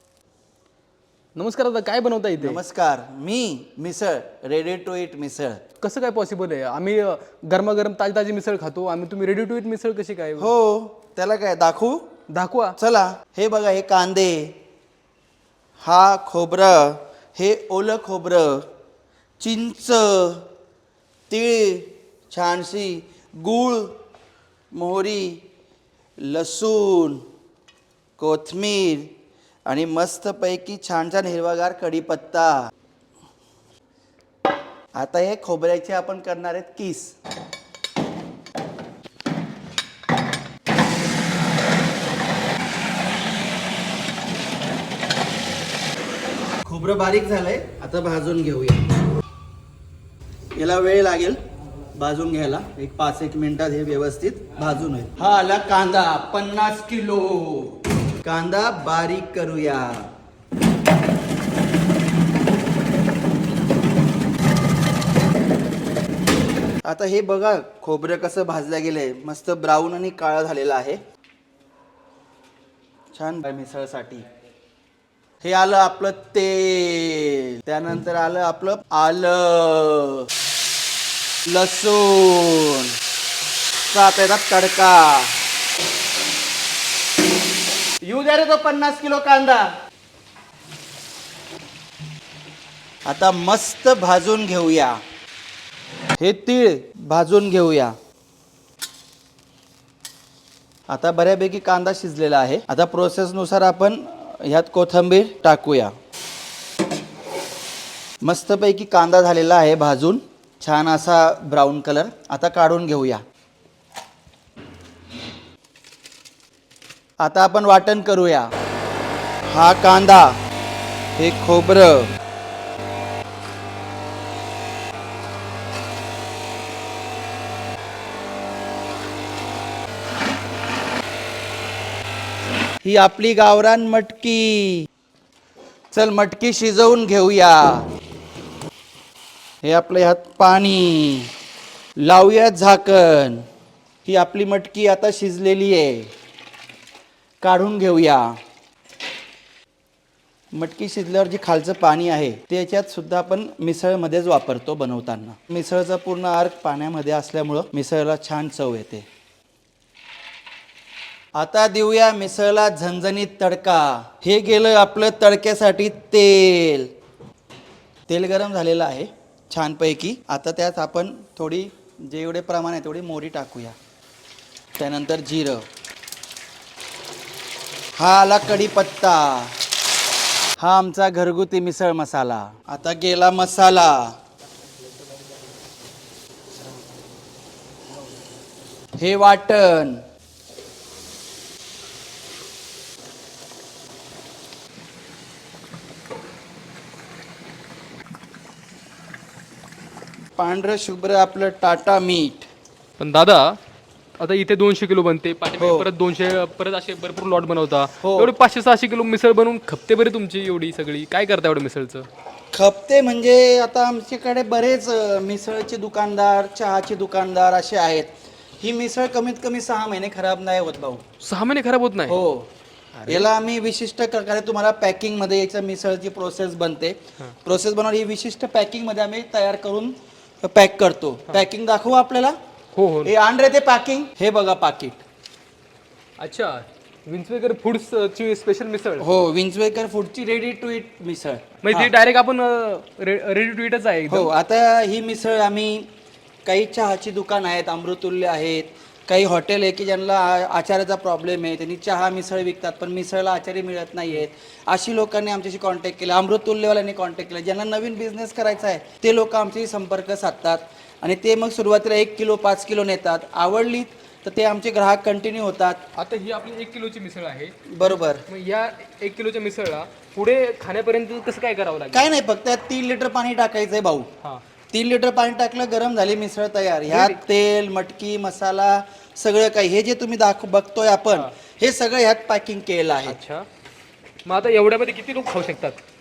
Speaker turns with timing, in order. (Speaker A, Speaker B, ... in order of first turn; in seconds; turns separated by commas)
Speaker A: 1.4-2.6, Speaker B: 2.4-5.6, Speaker A: 5.8-10.5, Speaker B: 10.4-12.1, Speaker A: 12.3-12.8, Speaker B: 12.8-14.5, Speaker B: 15.8-18.7, Speaker B: 19.4-20.5, Speaker B: 21.3-23.9, Speaker B: 24.7-25.4, Speaker B: 26.2-27.2, Speaker B: 28.2-29.1, Speaker B: 29.7-32.7, Speaker B: 35.0-37.2, Speaker B: 46.6-48.9, Speaker B: 50.5-51.4, Speaker B: 51.9-60.1, Speaker B: 66.8-71.0, Speaker B: 73.1-74.3, Speaker B: 75.4-80.3, Speaker B: 81.5-82.9, Speaker B: 83.9-85.4, Speaker B: 88.0-89.7, Speaker B: 93.1-95.0, Speaker B: 96.2-98.0, Speaker B: 100.9-105.9, Speaker B: 108.2-113.2, Speaker B: 117.2-118.5, Speaker B: 119.5-120.4, Speaker B: 121.2-122.1, Speaker B: 132.8-134.9, Speaker B: 135.9-137.9, Speaker B: 139.6-141.3, Speaker B: 142.0-143.5, Speaker B: 144.1-146.1, Speaker B: 147.4-148.4, Speaker B: 150.5-159.1, Speaker B: 161.4-166.9, Speaker B: 168.1-173.8, Speaker B: 174.8-175.7, Speaker B: 178.0-179.6, Speaker B: 180.6-184.2, Speaker B: 189.0-190.0, Speaker B: 200.4-202.5, Speaker A: 203.0-203.6, Speaker A: 204.2-212.1, Speaker B: 205.6-205.9, Speaker B: 208.0-208.3, Speaker B: 212.5-221.0, Speaker A: 221.2-222.2, Speaker B: 222.1-222.5, Speaker A: 223.0-223.3, Speaker B: 223.1-232.4, Speaker A: 232.8-233.1, Speaker B: 233.1-235.0, Speaker A: 236.2-239.1, Speaker B: 239.0-241.9, Speaker A: 241.6-244.3, Speaker B: 244.1-245.9, Speaker B: 246.5-265.8, Speaker A: 266.0-272.1, Speaker B: 267.7-268.2, Speaker B: 271.9-274.1, Speaker B: 274.7-283.2, Speaker A: 276.9-277.2, Speaker A: 283.1-283.5, Speaker A: 284.3-285.8